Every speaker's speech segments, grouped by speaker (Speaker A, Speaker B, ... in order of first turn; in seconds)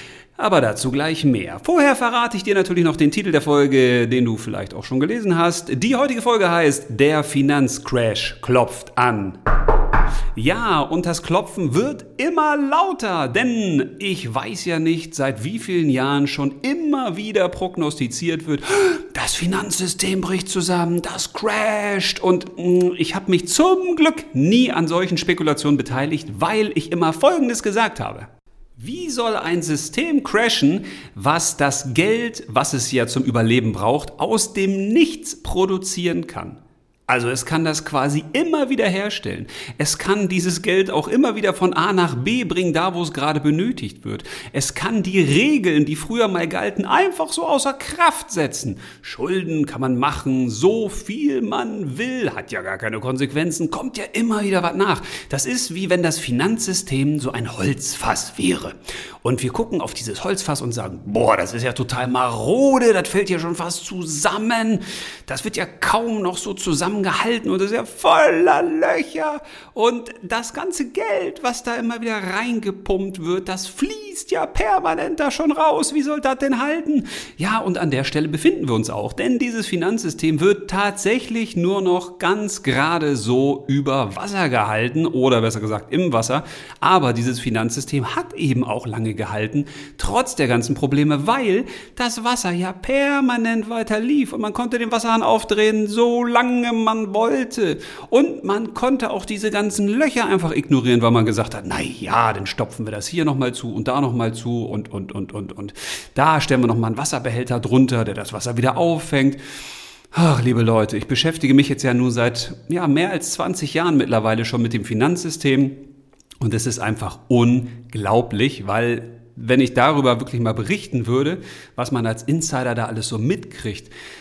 Speaker A: 0.4-9.4, 10.3-109.4, 110.1-115.8, 116.4-123.9